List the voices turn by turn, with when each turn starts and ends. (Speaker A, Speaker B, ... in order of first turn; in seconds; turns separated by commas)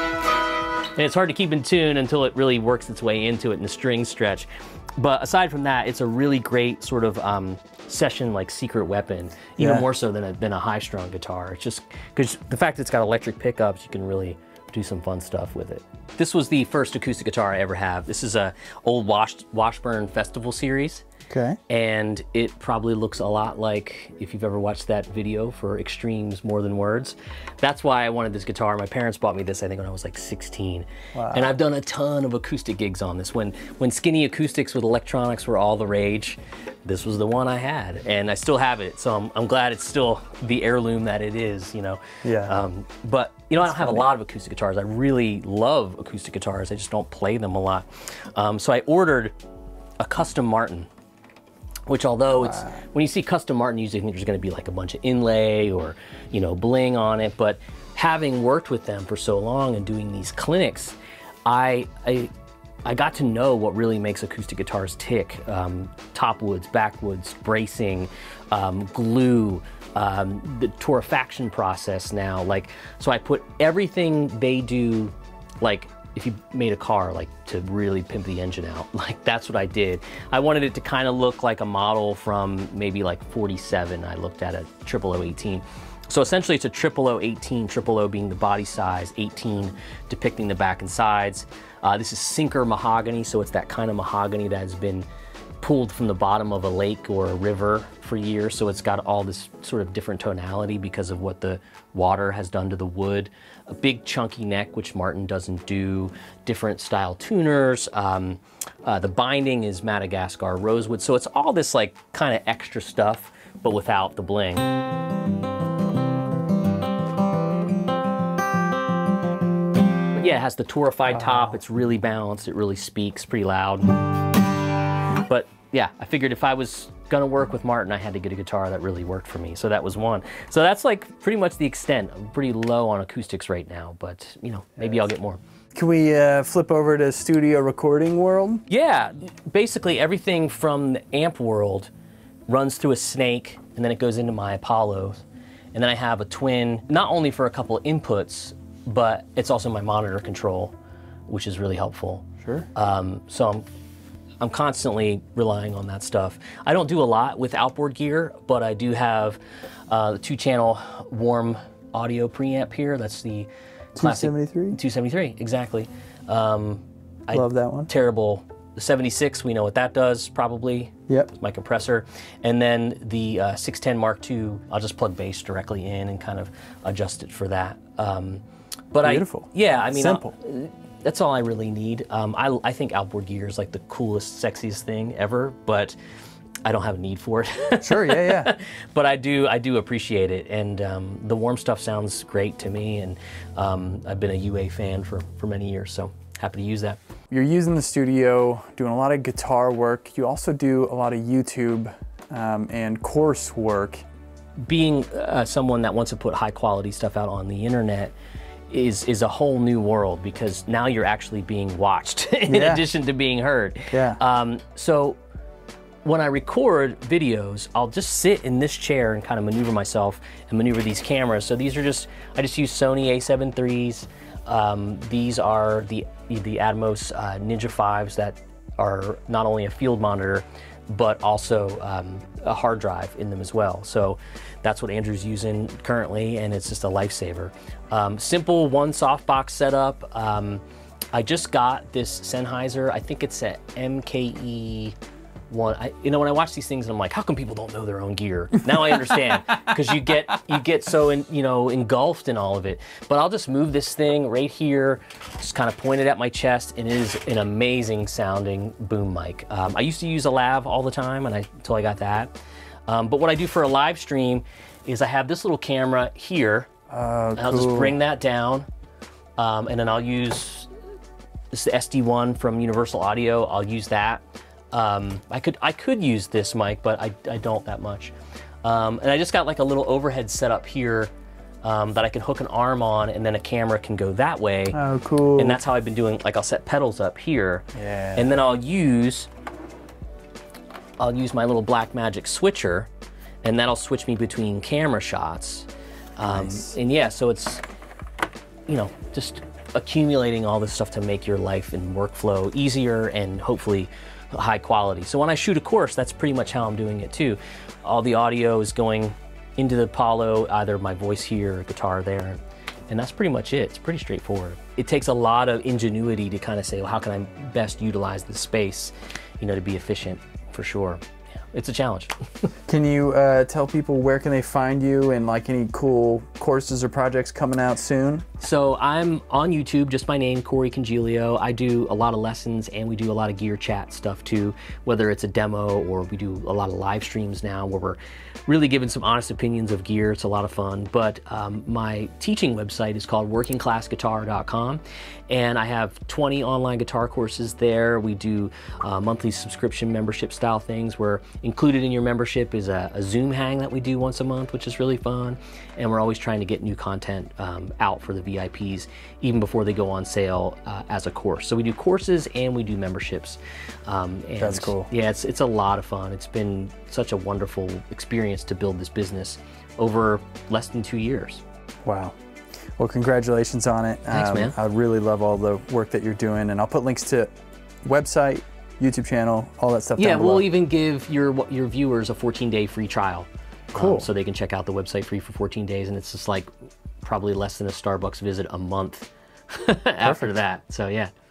Speaker A: 1.0-21.0, Speaker B: 9.6-9.9, Speaker B: 21.3-21.6, Speaker A: 21.7-49.3, Speaker B: 31.1-31.5, Speaker B: 42.2-42.5, Speaker A: 50.0-50.9, Speaker A: 51.9-62.3, Speaker B: 52.4-52.7, Speaker A: 62.9-95.1, Speaker A: 95.6-114.7, Speaker A: 120.1-124.0, Speaker A: 125.3-135.4, Speaker B: 135.8-138.6, Speaker A: 138.7-141.9, Speaker A: 142.5-145.2, Speaker A: 145.7-150.7, Speaker A: 151.3-153.7, Speaker B: 152.4-152.7, Speaker A: 154.4-178.4, Speaker B: 163.9-164.8, Speaker B: 167.3-167.9, Speaker A: 178.9-186.0, Speaker B: 179.0-180.3, Speaker A: 186.7-197.0, Speaker B: 187.8-188.5, Speaker B: 197.3-204.0, Speaker A: 204.6-208.1, Speaker A: 208.7-215.2, Speaker B: 212.5-212.8, Speaker B: 213.9-214.2, Speaker A: 216.1-240.6, Speaker A: 241.1-244.9, Speaker A: 245.5-262.3, Speaker A: 262.9-266.7, Speaker B: 266.9-267.9, Speaker A: 267.4-268.7, Speaker A: 269.4-270.7, Speaker A: 271.5-278.1, Speaker A: 278.6-281.1, Speaker A: 281.6-284.8, Speaker B: 284.7-285.6, Speaker A: 285.4-289.3, Speaker B: 287.8-288.3, Speaker A: 291.0-292.9, Speaker A: 293.4-297.6, Speaker B: 296.2-296.8, Speaker A: 298.7-322.5, Speaker B: 322.7-328.3, Speaker A: 328.4-371.4, Speaker B: 364.4-364.9, Speaker B: 371.9-372.2, Speaker B: 372.8-377.3, Speaker A: 374.1-374.6, Speaker B: 377.8-380.5, Speaker A: 380.0-386.5, Speaker B: 383.8-384.1, Speaker A: 387.0-391.1, Speaker B: 390.0-390.3